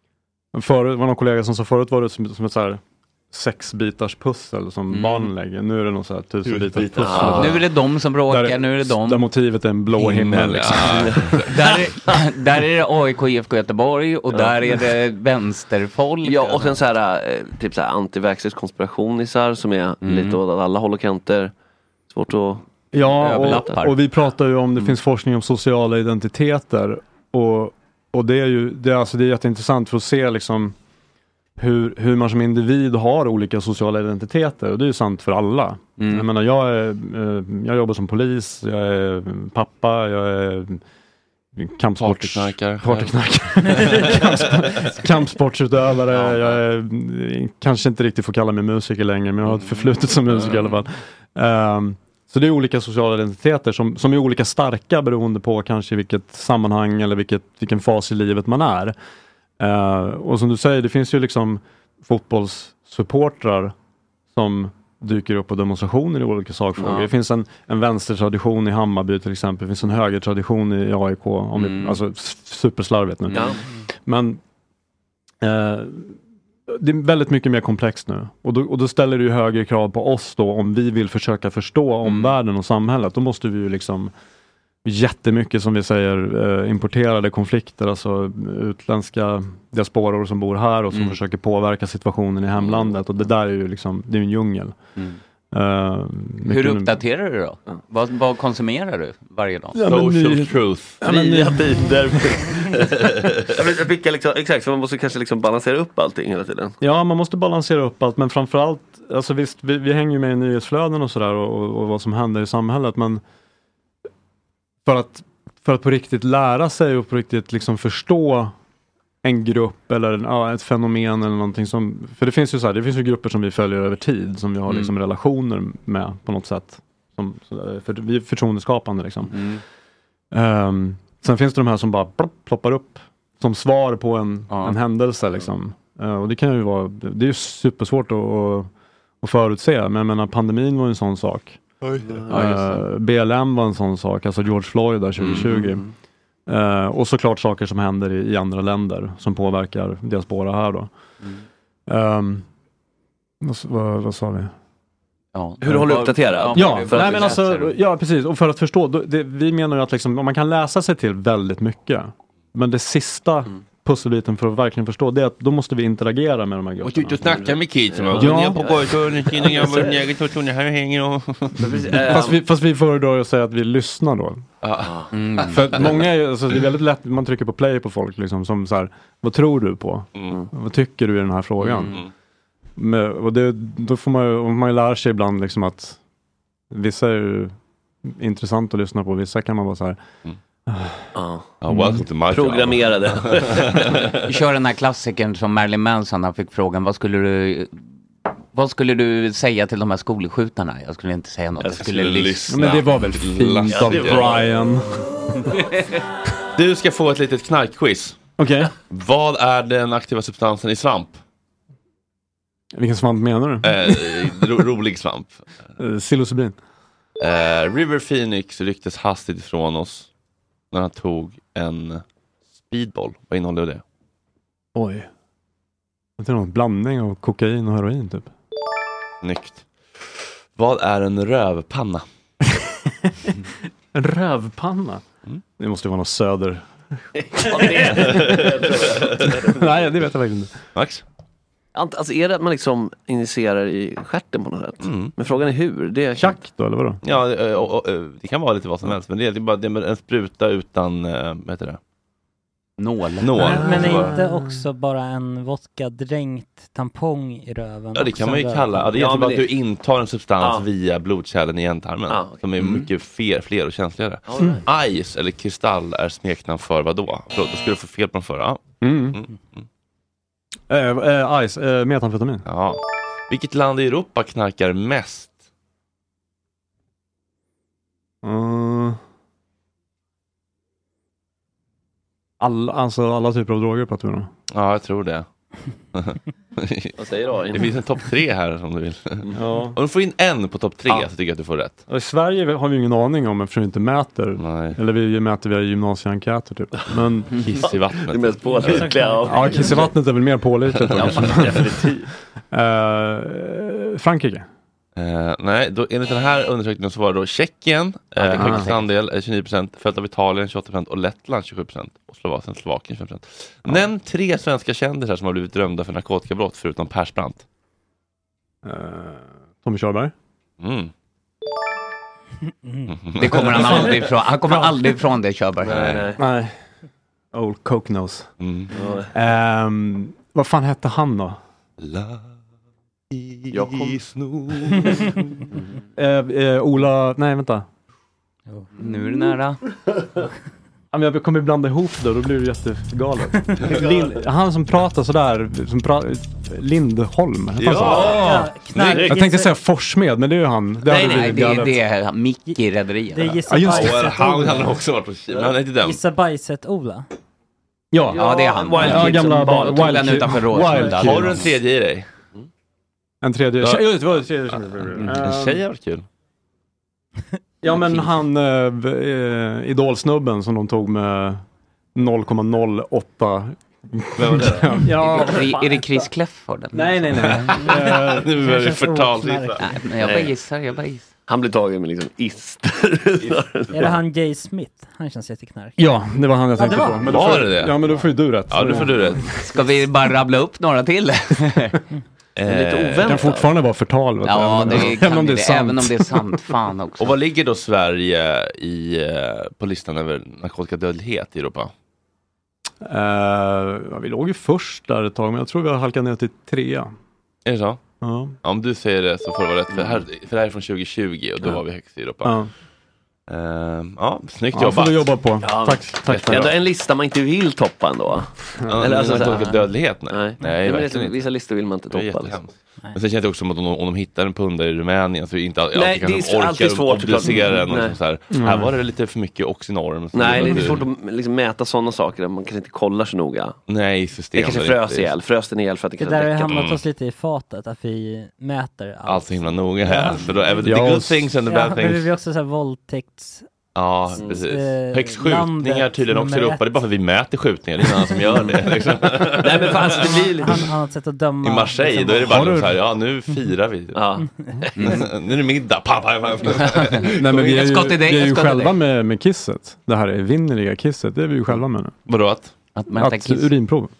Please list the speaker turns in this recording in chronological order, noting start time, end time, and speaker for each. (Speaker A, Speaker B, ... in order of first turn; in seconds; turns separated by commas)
Speaker A: 0.5-2.8, Speaker A: 3.3-11.4, Speaker B: 4.9-5.3, Speaker C: 6.4-7.5, Speaker D: 7.0-7.5, Speaker B: 7.2-9.3, Speaker B: 9.9-10.4, Speaker C: 10.1-11.5, Speaker D: 10.9-11.9, Speaker B: 11.5-16.8, Speaker D: 14.3-14.8, Speaker D: 16.2-21.5, Speaker B: 20.0-20.4, Speaker D: 22.1-22.6, Speaker A: 22.9-30.8, Speaker B: 23.1-24.0, Speaker D: 23.4-23.8, Speaker A: 31.6-40.8, Speaker B: 36.0-36.3, Speaker A: 41.5-58.9, Speaker C: 42.0-44.8, Speaker B: 49.4-50.8, Speaker A: 59.6-63.7, Speaker A: 64.3-74.4, Speaker B: 71.5-72.0, Speaker D: 73.3-73.6, Speaker A: 75.4-84.1, Speaker B: 82.0-82.3, Speaker A: 84.8-94.8, Speaker B: 90.9-91.2, Speaker B: 92.6-93.0, Speaker A: 95.5-97.0, Speaker B: 96.4-99.8, Speaker A: 99.7-102.4, Speaker C: 99.8-101.0, Speaker D: 101.0-106.7, Speaker C: 103.2-103.5, Speaker A: 106.8-113.2, Speaker A: 114.8-118.5, Speaker A: 119.2-129.4, Speaker B: 124.7-125.0, Speaker B: 129.3-129.6, Speaker A: 130.3-138.7, Speaker B: 134.5-134.8, Speaker A: 139.2-141.6, Speaker D: 142.1-142.5, Speaker A: 142.3-145.8, Speaker B: 142.3-142.8, Speaker B: 145.2-145.6, Speaker D: 145.3-145.9, Speaker A: 146.5-150.9, Speaker A: 151.9-152.4, Speaker A: 153.4-154.5, Speaker B: 155.3-157.8, Speaker D: 155.6-157.5, Speaker A: 156.5-167.2, Speaker C: 166.8-172.2, Speaker D: 167.2-169.9, Speaker A: 168.1-168.8, Speaker D: 171.6-172.4, Speaker A: 171.7-174.4, Speaker C: 174.6-175.1, Speaker B: 175.1-175.8, Speaker A: 175.4-182.0, Speaker B: 181.6-181.9, Speaker C: 181.8-182.1, Speaker A: 182.8-186.0, Speaker A: 186.7-187.5, Speaker A: 188.0-190.0, Speaker A: 190.7-191.1, Speaker D: 191.1-191.4, Speaker C: 191.6-194.0, Speaker A: 191.7-192.0, Speaker D: 192.3-194.2, Speaker B: 194.2-197.8, Speaker B: 198.5-202.4, Speaker C: 201.7-204.4, Speaker A: 202.5-205.0, Speaker D: 203.7-204.4, Speaker C: 206.6-208.2, Speaker A: 208.4-208.7, Speaker C: 208.9-211.2, Speaker A: 212.8-214.4, Speaker C: 213.6-215.4, Speaker A: 215.8-216.6, Speaker C: 217.2-220.1, Speaker C: 220.7-222.0, Speaker C: 222.6-223.8, Speaker A: 224.7-225.1, Speaker A: 226.2-228.3, Speaker C: 229.2-232.0, Speaker A: 233.9-235.0, Speaker A: 235.6-238.4, Speaker D: 237.4-239.7, Speaker C: 237.9-239.2, Speaker A: 239.4-240.5, Speaker C: 240.7-241.0, Speaker D: 241.7-246.4, Speaker C: 244.8-245.1, Speaker A: 246.2-247.0, Speaker C: 247.0-251.8, Speaker B: 252.8-253.7, Speaker C: 253.2-254.1, Speaker A: 253.4-254.6, Speaker E: 253.4-258.9, Speaker C: 257.9-268.6, Speaker D: 258.9-259.5, Speaker D: 262.1-262.4, Speaker B: 262.6-262.9, Speaker D: 264.3-264.6, Speaker A: 268.8-269.2, Speaker C: 269.1-269.6, Speaker A: 270.7-272.4, Speaker C: 272.4-275.3, Speaker A: 278.2-279.0, Speaker A: 282.4-284.3, Speaker C: 284.5-285.2, Speaker C: 285.9-286.9, Speaker D: 287.0-287.7, Speaker C: 287.5-291.8, Speaker A: 289.3-289.8, Speaker A: 291.9-297.4, Speaker C: 294.4-294.8, Speaker C: 297.3-299.5, Speaker D: 297.6-299.9, Speaker E: 298.6-299.7, Speaker A: 299.2-301.9, Speaker C: 300.7-301.3, Speaker B: 301.0-301.5, Speaker D: 301.4-302.1, Speaker A: 302.5-304.4, Speaker C: 304.9-317.4, Speaker B: 308.2-308.9, Speaker A: 308.3-308.7, Speaker A: 318.6-320.1, Speaker C: 320.6-320.9, Speaker E: 322.6-322.9, Speaker C: 322.9-324.0, Speaker B: 323.2-325.9, Speaker A: 323.3-324.9, Speaker D: 325.6-326.2, Speaker C: 325.6-326.1, Speaker A: 326.1-326.5, Speaker A: 327.3-328.3, Speaker C: 328.4-328.7, Speaker D: 328.7-329.1, Speaker A: 329.1-331.4, Speaker C: 331.8-332.3, Speaker C: 333.1-335.3, Speaker D: 333.5-334.0, Speaker A: 335.9-337.6, Speaker B: 338.8-339.6, Speaker A: 340.9-351.8, Speaker C: 347.6-349.1, Speaker D: 347.8-348.3, Speaker E: 348.0-349.5, Speaker D: 348.9-349.2, Speaker D: 350.9-351.4, Speaker B: 350.9-353.4, Speaker E: 353.1-354.7, Speaker A: 353.5-354.3, Speaker C: 353.6-356.0, Speaker E: 355.8-357.1, Speaker A: 357.9-361.4, Speaker D: 358.1-360.0, Speaker B: 358.1-361.4, Speaker C: 360.8-362.1, Speaker A: 363.2-365.6, Speaker C: 363.6-364.0, Speaker C: 364.5-366.1, Speaker A: 367.6-371.4, Speaker B: 367.6-368.1, Speaker A: 371.9-376.1, Speaker C: 374.1-374.8, Speaker B: 374.8-377.5, Speaker A: 376.7-378.3, Speaker C: 377.3-379.6, Speaker E: 377.6-379.7, Speaker B: 379.6-381.1, Speaker D: 380.0-380.3, Speaker D: 381.3-383.9, Speaker E: 383.7-385.8, Speaker A: 385.8-389.5, Speaker E: 386.6-387.1, Speaker C: 387.0-387.9, Speaker C: 388.5-389.4, Speaker B: 389.4-391.8, Speaker C: 392.4-393.3, Speaker D: 392.5-393.5, Speaker A: 393.0-396.6, Speaker B: 394.2-397.2, Speaker C: 397.0-401.7, Speaker A: 402.8-406.9, Speaker C: 407.4-407.8, Speaker A: 408.0-408.4, Speaker C: 408.4-412.4, Speaker D: 409.7-410.0, Speaker A: 412.2-412.5, Speaker C: 413.3-415.1, Speaker A: 414.5-416.5, Speaker D: 415.4-419.4, Speaker C: 416.1-416.6, Speaker C: 418.7-421.2, Speaker D: 420.1-422.4, Speaker C: 421.9-430.8, Speaker D: 425.7-427.9, Speaker A: 428.3-428.7, Speaker D: 430.1-433.6, Speaker C: 433.7-435.1, Speaker D: 434.3-436.6, Speaker E: 436.0-440.8, Speaker C: 436.5-436.8, Speaker C: 439.1-442.1, Speaker A: 440.6-441.3, Speaker E: 441.4-443.5, Speaker C: 443.7-450.2, Speaker E: 444.2-446.8, Speaker D: 449.3-450.6, Speaker E: 449.8-452.5, Speaker C: 451.4-454.0, Speaker A: 452.3-452.7, Speaker D: 453.9-454.7, Speaker E: 454.2-454.6, Speaker B: 454.8-455.1, Speaker C: 454.8-457.7, Speaker B: 456.5-458.8, Speaker A: 457.0-461.9, Speaker C: 462.1-462.5, Speaker B: 462.7-463.5, Speaker A: 462.9-463.9